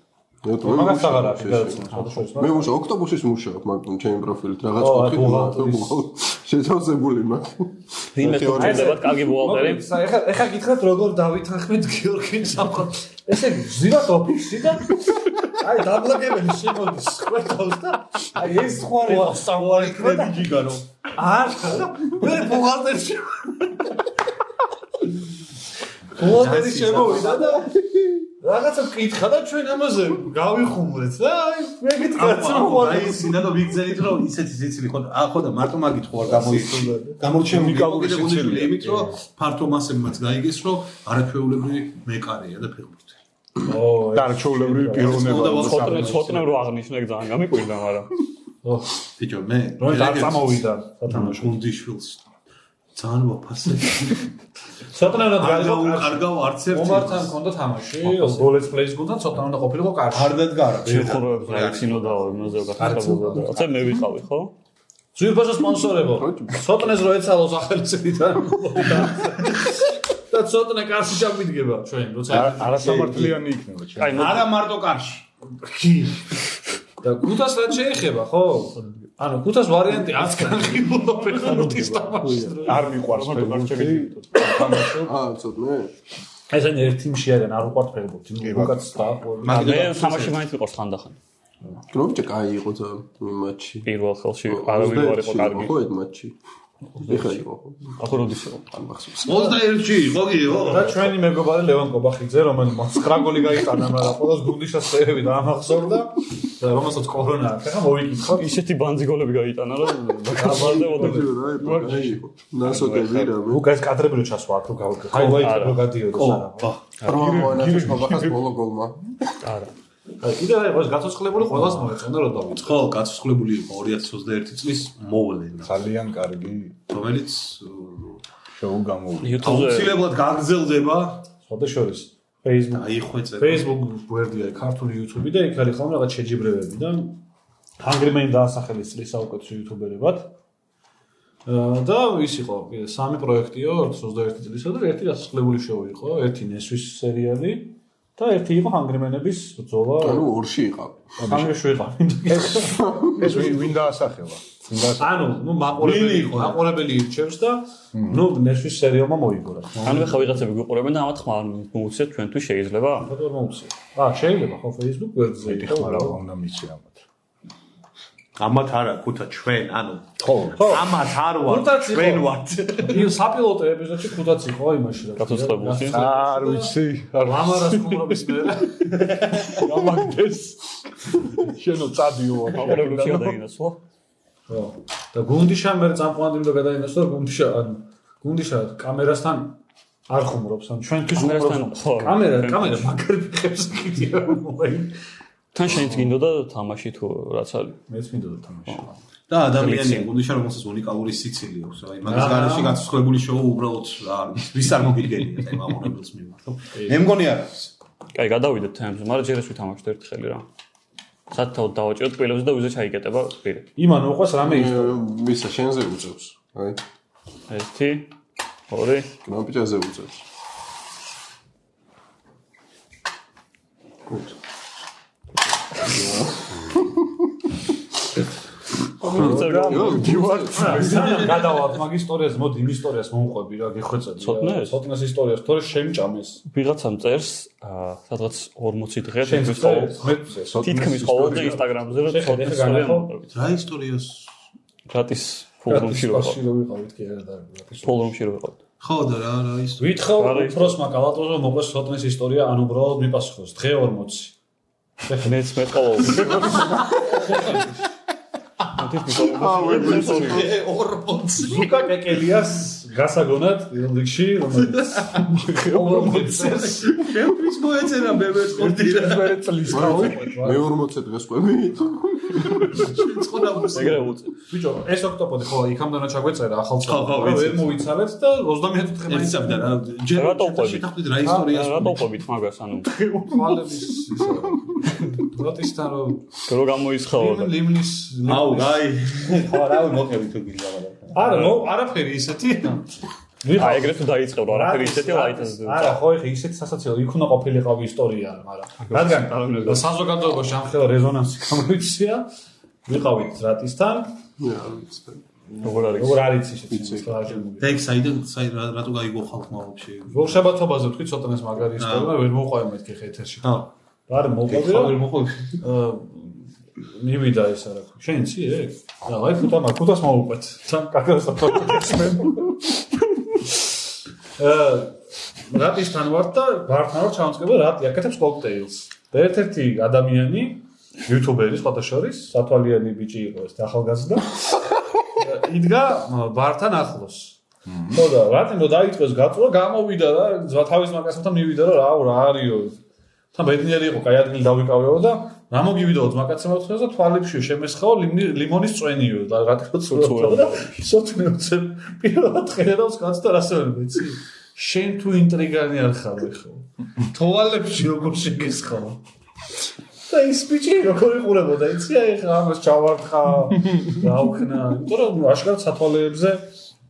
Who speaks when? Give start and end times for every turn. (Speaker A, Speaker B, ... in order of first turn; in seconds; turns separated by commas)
Speaker A: 0.4-9.0, Speaker B: 0.6-2.8, Speaker B: 4.8-6.0, Speaker C: 8.2-9.9, Speaker B: 8.4-20.5, Speaker D: 18.4-20.9, Speaker B: 21.1-24.0, Speaker B: 26.1-27.7, Speaker D: 26.2-27.6, Speaker A: 27.8-28.3, Speaker B: 28.4-33.5, Speaker D: 32.1-43.2, Speaker B: 36.3-37.2, Speaker E: 37.5-39.2, Speaker B: 43.6-45.6, Speaker E: 44.1-46.6, Speaker D: 44.9-46.3, Speaker C: 45.4-48.1, Speaker B: 48.6-48.9, Speaker D: 49.2-52.2, Speaker B: 49.8-51.6, Speaker D: 53.0-54.3, Speaker B: 54.9-60.4, Speaker D: 55.2-57.4, Speaker C: 58.0-58.5, Speaker D: 60.1-62.9, Speaker C: 60.8-64.5, Speaker B: 62.8-63.9, Speaker B: 65.1-73.4, Speaker A: 66.0-66.9, Speaker E: 72.3-74.4, Speaker C: 74.0-74.5, Speaker D: 74.1-75.3, Speaker B: 75.6-76.4, Speaker B: 77.0-83.0, Speaker C: 81.3-82.1, Speaker A: 82.2-82.7, Speaker E: 82.6-85.1, Speaker C: 82.7-84.6, Speaker A: 85.0-85.9, Speaker B: 86.5-89.6, Speaker E: 88.4-88.9, Speaker D: 89.4-90.5, Speaker C: 89.5-91.2, Speaker A: 91.9-93.9, Speaker C: 93.8-95.8, Speaker A: 94.5-96.4, Speaker C: 97.0-98.7, Speaker A: 97.0-98.0, Speaker A: 98.7-99.6, Speaker D: 99.3-101.1, Speaker B: 100.5-108.6, Speaker C: 108.3-111.9, Speaker B: 110.4-111.8, Speaker A: 110.4-113.7, Speaker E: 111.6-112.1, Speaker E: 112.7-113.3, Speaker B: 112.9-116.7, Speaker D: 115.1-116.9, Speaker C: 115.2-115.8, Speaker A: 117.0-119.2, Speaker E: 117.0-118.4, Speaker C: 119.4-119.7, Speaker B: 120.2-122.8, Speaker D: 122.6-125.8, Speaker E: 125.6-126.8, Speaker D: 126.9-128.2, Speaker E: 128.5-129.6, Speaker C: 129.2-130.0, Speaker D: 129.4-131.3, Speaker B: 131.4-137.2, Speaker D: 132.7-133.7, Speaker B: 137.8-140.3, Speaker B: 141.5-150.3, Speaker A: 150.0-151.1, Speaker B: 151.2-153.5, Speaker E: 152.3-155.3, Speaker A: 152.6-153.5, Speaker B: 155.0-160.4, Speaker D: 155.8-156.7, Speaker E: 157.9-158.3, Speaker C: 159.8-163.1, Speaker B: 163.0-166.2, Speaker E: 165.4-167.0, Speaker D: 168.4-173.1, Speaker E: 170.2-170.8, Speaker B: 170.6-179.2, Speaker C: 175.2-176.1, Speaker E: 175.9-178.2, Speaker D: 178.9-179.7, Speaker E: 179.6-183.4, Speaker C: 182.5-183.8, Speaker B: 184.5-194.9, Speaker C: 191.2-192.9, Speaker C: 195.5-197.8, Speaker B: 195.7-196.1, Speaker B: 197.9-199.0, Speaker D: 199.3-207.7, Speaker C: 199.6-200.1, Speaker B: 202.1-202.8, Speaker B: 206.8-207.1, Speaker C: 208.2-210.5, Speaker C: 211.3-213.7, Speaker B: 213.8-215.0, Speaker A: 214.4-216.8, Speaker C: 217.5-218.1, Speaker C: 218.7-219.1, Speaker A: 219.2-220.2, Speaker A: 225.9-226.9, Speaker C: 229.0-230.4, Speaker E: 229.0-231.3, Speaker A: 229.0-231.4, Speaker B: 230.5-236.4, Speaker D: 230.9-231.4, Speaker C: 234.2-234.8, Speaker C: 236.5-243.3, Speaker B: 239.2-240.7, Speaker E: 240.4-241.7, Speaker B: 242.0-243.2, Speaker D: 243.3-244.3, Speaker C: 244.9-246.4, Speaker B: 245.7-248.1, Speaker C: 247.8-248.6, Speaker D: 248.8-249.8, Speaker B: 249.8-254.3, Speaker C: 250.1-250.8, Speaker B: 255.0-255.4, Speaker C: 255.2-256.7, Speaker B: 256.0-257.7, Speaker C: 258.7-260.5, Speaker A: 259.2-260.5, Speaker D: 259.6-261.9, Speaker B: 261.4-267.1, Speaker D: 264.7-265.3, Speaker E: 265.3-266.8, Speaker D: 266.8-269.5, Speaker E: 268.5-270.4, Speaker B: 269.7-270.7, Speaker A: 269.7-272.7, Speaker E: 272.4-273.0, Speaker D: 272.7-274.1, Speaker C: 273.7-274.3, Speaker B: 274.4-279.8, Speaker D: 276.8-277.9, Speaker D: 279.1-282.0, Speaker C: 280.1-282.9, Speaker B: 281.2-282.0, Speaker B: 282.8-286.3, Speaker C: 286.5-287.6, Speaker B: 287.1-289.7, Speaker D: 288.3-291.5, Speaker B: 291.1-292.9, Speaker B: 293.4-302.3, Speaker C: 293.5-296.0, Speaker C: 298.8-299.9, Speaker B: 302.9-304.1, Speaker A: 304.4-305.2, Speaker B: 305.5-307.8, Speaker C: 305.6-306.4, Speaker A: 306.7-307.1, Speaker D: 307.6-310.4, Speaker B: 310.1-315.0, Speaker D: 311.8-312.1, Speaker D: 313.4-313.7, Speaker D: 314.5-315.6, Speaker B: 315.6-322.5, Speaker E: 321.9-322.5, Speaker B: 324.4-334.5, Speaker B: 335.2-337.4, Speaker E: 337.7-338.0, Speaker B: 337.9-342.8, Speaker B: 343.3-359.0, Speaker C: 349.9-350.8, Speaker B: 360.1-366.5